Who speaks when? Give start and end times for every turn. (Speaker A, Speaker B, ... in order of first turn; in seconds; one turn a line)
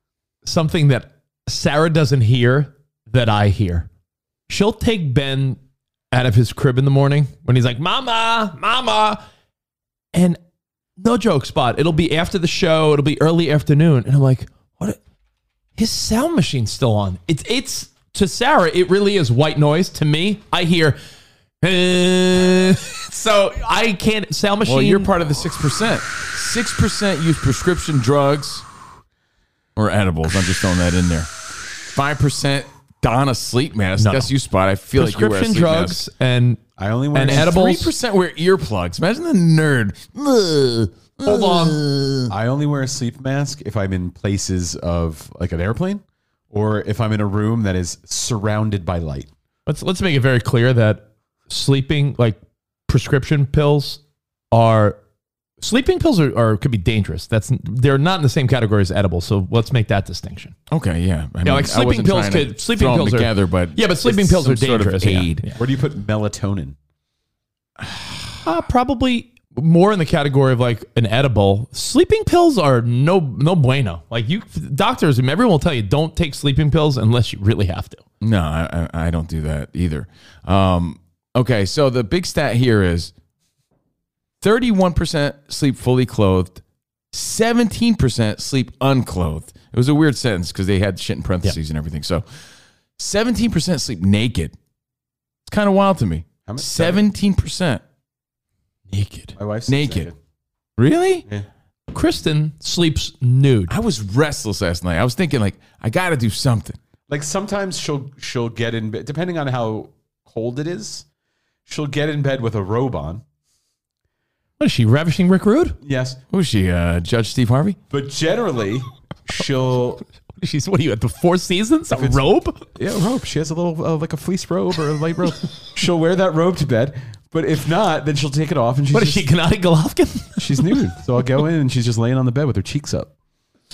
Speaker A: 0.5-3.9
Speaker A: 4.5-5.6
Speaker A: 6.1-9.2
Speaker A: 10.1-10.4
Speaker A: 11.0-15.0
Speaker A: 15.8-21.0
Speaker A: 21.6-25.1
Speaker B: 24.6-28.6
Speaker B: 29.8-31.3
Speaker B: 31.8-36.0
Speaker A: 34.0-34.3
Speaker A: 35.0-36.6
Speaker C: 36.8-37.6
Speaker A: 37.1-37.9
Speaker B: 37.2-42.3
Speaker A: 41.2-41.8
Speaker C: 42.3-49.3
Speaker A: 49.7-54.0
Speaker A: 54.5-55.0
Speaker A: 55.6-60.5
Speaker B: 60.7-65.5
Speaker A: 61.5-65.6
Speaker C: 65.6-66.8
Speaker B: 67.8-68.4
Speaker A: 68.4-78.0
Speaker B: 78.2-83.1
Speaker B: 84.4-86.6
Speaker B: 87.1-92.2
Speaker B: 93.0-94.5
Speaker B: 95.5-97.8
Speaker C: 96.5-97.1
Speaker A: 98.9-99.3
Speaker C: 99.4-100.2
Speaker B: 99.7-100.1
Speaker B: 100.8-101.2
Speaker A: 101.9-103.7
Speaker B: 103.7-106.8
Speaker C: 107.1-111.1
Speaker C: 111.7-113.2
Speaker A: 114.6-115.8
Speaker C: 115.8-116.2
Speaker B: 116.3-117.8
Speaker C: 117.9-120.0
Speaker A: 120.3-122.6
Speaker C: 121.9-129.3
Speaker A: 128.9-130.8
Speaker C: 130.4-133.1